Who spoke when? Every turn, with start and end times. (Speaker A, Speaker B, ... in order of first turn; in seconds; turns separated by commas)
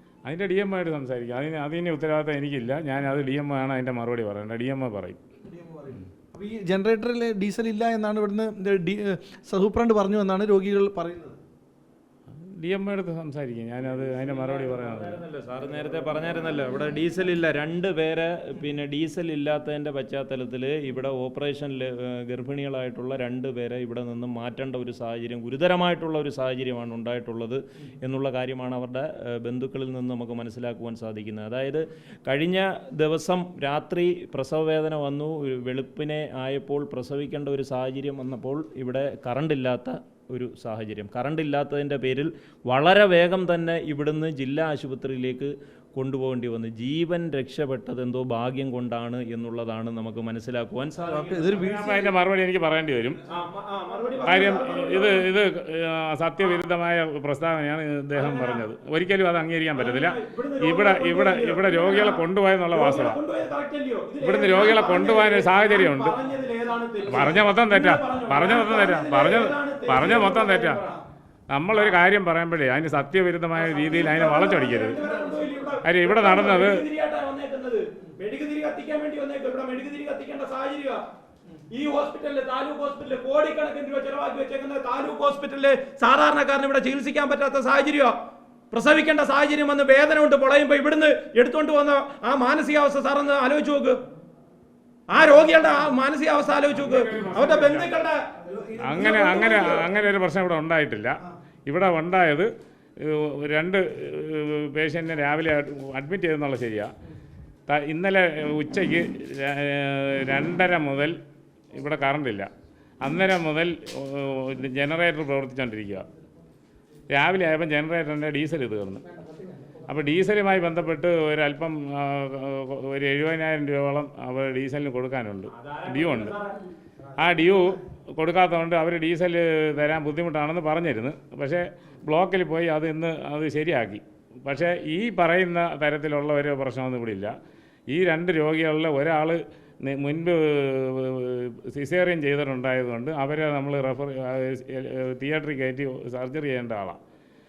Speaker A: 0.2-5.2, Speaker B: 5.5-11.4, Speaker A: 12.5-15.2, Speaker C: 13.8-51.5, Speaker B: 51.0-52.1, Speaker A: 51.4-53.2, Speaker D: 53.3-55.3, Speaker A: 54.2-63.2, Speaker D: 58.1-58.6, Speaker D: 59.7-71.0, Speaker A: 64.2-66.2, Speaker A: 67.1-70.8, Speaker A: 71.5-75.0, Speaker D: 73.5-81.0, Speaker A: 75.8-76.8, Speaker D: 81.7-88.2, Speaker D: 88.7-94.0, Speaker D: 95.1-99.9, Speaker A: 96.7-98.1, Speaker A: 98.8-101.2, Speaker A: 101.7-102.5, Speaker A: 103.0-106.9, Speaker A: 107.7-111.2, Speaker A: 111.7-112.5, Speaker A: 113.0-116.0, Speaker A: 117.1-119.0, Speaker A: 119.8-126.4, Speaker D: 125.6-126.6, Speaker A: 127.2-137.3, Speaker A: 137.9-147.0